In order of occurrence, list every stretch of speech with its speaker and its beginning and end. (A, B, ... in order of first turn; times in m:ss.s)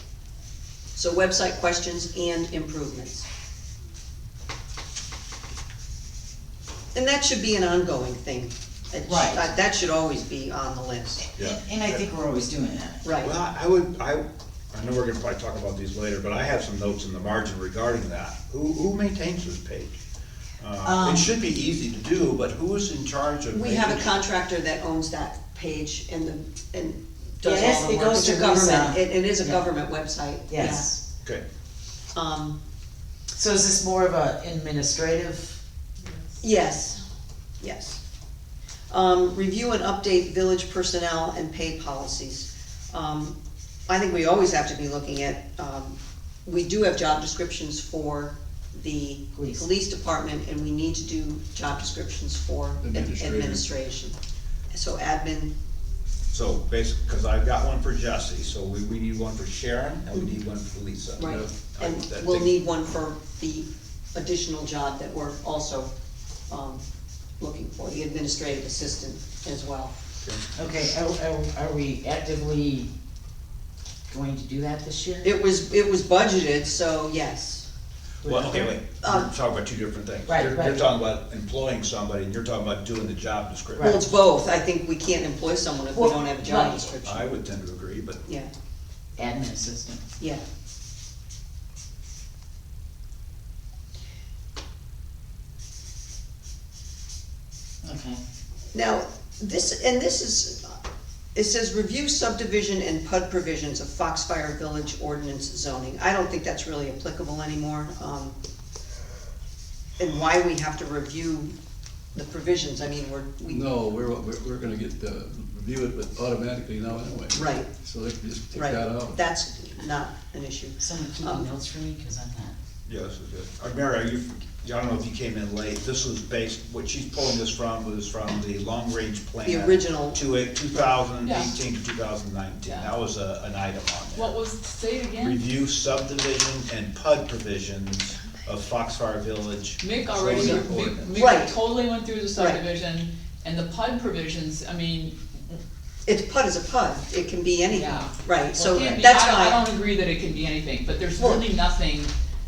0:00.9-0:03.3 A
0:06.9-0:11.2 A
0:09.1-0:09.5 B
0:11.2-0:13.0 B
0:11.4-0:12.0 C
0:13.0-0:13.3 A
0:13.2-0:19.9 C
0:20.6-0:24.1 C
0:20.8-0:21.3 B
0:23.5-0:30.9 A
0:27.4-0:29.6 B
0:30.5-0:31.0 B
0:32.1-0:32.6 A
0:33.3-0:35.6 B
0:36.4-0:37.0 A
0:37.6-0:38.0 A
0:38.9-0:43.4 A
0:43.9-0:54.2 A
0:49.3-0:49.6 B
0:52.8-0:53.6 D
0:54.7-0:55.5 A
0:56.3-1:02.5 C
1:01.2-1:05.9 A
1:01.2-1:01.5 D
1:06.5-1:06.8 A
1:07.4-1:09.9 A
1:10.6-1:12.9 B
1:14.1-1:15.2 B
1:15.2-1:17.7 A
1:18.2-1:24.0 C
1:18.2-1:18.7 B
1:19.0-1:19.3 A
1:20.3-1:20.8 B
1:23.8-1:24.1 B
1:23.8-1:27.3 A
1:25.9-1:26.9 B
1:27.0-1:28.2 C
1:29.2-1:30.0 B
1:37.8-1:38.2 B
1:38.7-1:40.8 A
1:41.3-1:48.4 A
1:50.0-1:51.5 A
1:52.1-1:53.7 A
1:53.4-1:59.2 D
1:57.3-1:57.7 A
1:58.5-2:01.5 A
2:00.8-2:02.5 B
2:02.9-2:14.4 C
2:09.4-2:10.2 A
2:11.2-2:11.5 E
2:12.6-2:12.9 E
2:14.1-2:15.4 E
2:15.2-2:21.1 C
2:19.8-2:25.5 E
2:20.4-2:20.6 A
2:21.1-2:21.6 A
2:22.4-2:22.6 A
2:26.0-2:29.6 A
2:27.7-2:32.1 E
2:28.5-2:29.0 B